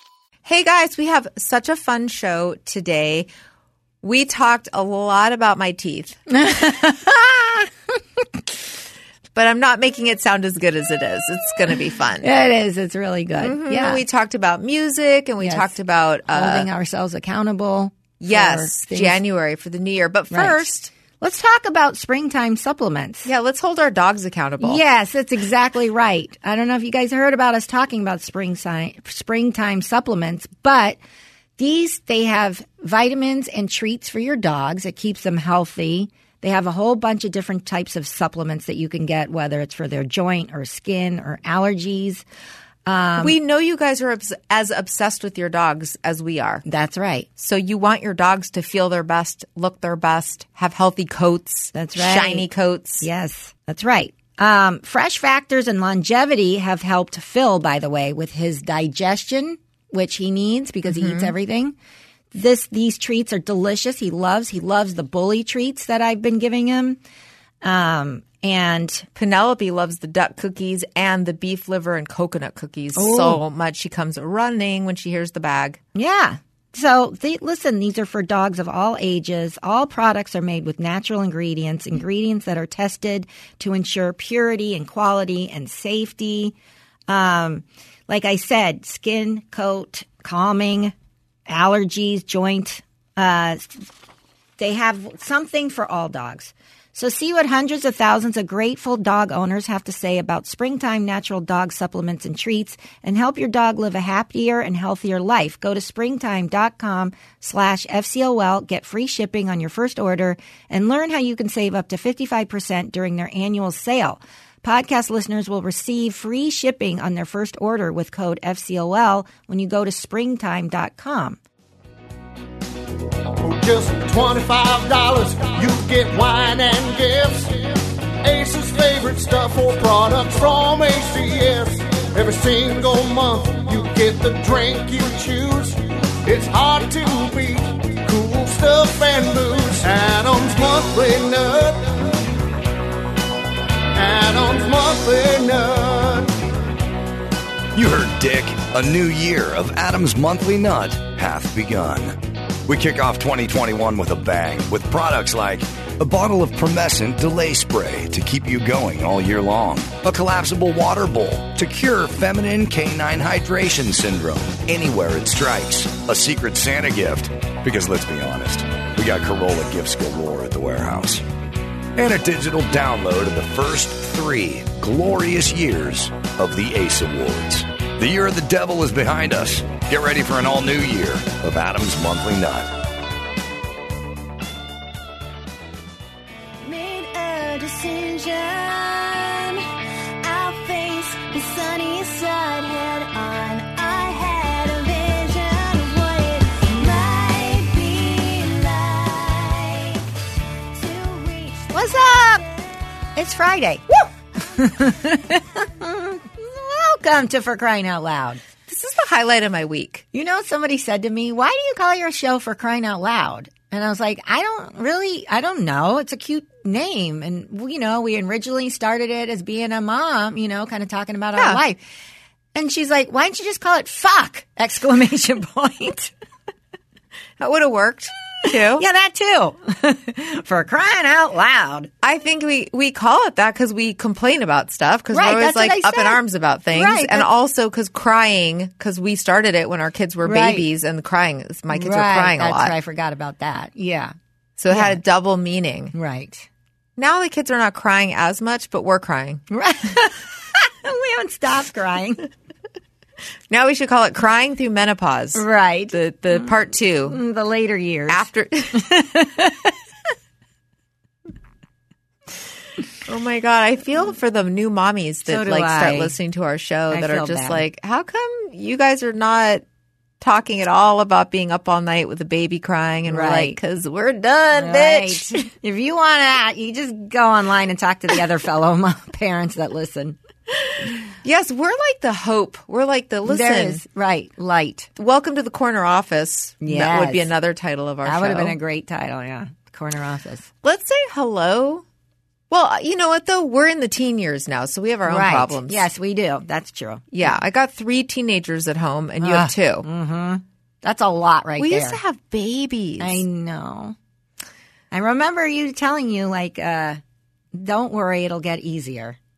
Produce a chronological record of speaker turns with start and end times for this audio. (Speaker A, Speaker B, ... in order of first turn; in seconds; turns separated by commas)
Speaker A: 0.5-3.3, Speaker A: 4.0-6.2, Speaker B: 6.3-8.4, Speaker A: 9.3-12.3, Speaker B: 12.2-14.0, Speaker A: 13.4-16.7, Speaker B: 15.4-15.7, Speaker B: 16.3-19.2, Speaker A: 18.2-20.9, Speaker B: 20.3-20.7, Speaker B: 21.2-23.3, Speaker A: 23.2-24.8, Speaker B: 24.6-31.0, Speaker B: 31.6-42.2, Speaker B: 42.9-43.4, Speaker A: 43.2-46.6, Speaker B: 46.6-47.3, Speaker A: 47.4-53.1, Speaker B: 51.7-52.5, Speaker B: 53.0-61.7, Speaker A: 60.9-61.3, Speaker B: 62.3-67.0, Speaker B: 67.6-69.1, Speaker A: 69.2-75.8, Speaker B: 73.0-73.4, Speaker B: 76.0-86.5, Speaker B: 87.1-90.9, Speaker B: 91.5-93.9, Speaker B: 94.6-121.4, Speaker C: 123.4-142.0, Speaker C: 143.9-146.4, Speaker D: 147.7-171.2, Speaker D: 172.0-182.7, Speaker E: 186.8-189.6, Speaker B: 187.8-188.4, Speaker B: 190.3-194.1, Speaker E: 190.6-191.4, Speaker E: 194.0-200.0, Speaker B: 196.7-197.2, Speaker B: 200.8-202.5, Speaker B: 203.2-208.4, Speaker A: 208.7-210.0, Speaker B: 210.1-221.8, Speaker A: 221.4-221.6, Speaker B: 222.6-226.1, Speaker A: 227.4-228.8, Speaker B: 228.7-231.9, Speaker A: 232.0-242.8, Speaker B: 235.1-236.2, Speaker B: 236.7-237.3, Speaker B: 240.2-240.7, Speaker B: 241.7-244.2, Speaker A: 244.6-245.9, Speaker B: 244.7-245.0, Speaker B: 245.9-246.5, Speaker A: 247.0-249.4, Speaker B: 249.5-252.3, Speaker A: 253.5-257.2, Speaker B: 255.3-256.0, Speaker B: 257.1-259.8, Speaker A: 258.1-258.9, Speaker A: 263.1-269.6, Speaker B: 265.3-266.1, Speaker B: 266.9-267.6, Speaker A: 270.2-275.5, Speaker B: 273.1-273.6, Speaker B: 274.6-280.2, Speaker A: 281.2-283.8, Speaker B: 283.3-284.9, Speaker A: 285.0-288.6, Speaker B: 286.6-287.3, Speaker B: 288.0-290.5, Speaker A: 290.6-291.8, Speaker A: 292.5-295.9, Speaker B: 295.1-297.3, Speaker A: 297.1-299.9, Speaker B: 299.2-302.0, Speaker A: 301.6-303.2, Speaker B: 303.0-304.0, Speaker B: 304.9-307.0, Speaker B: 307.5-309.2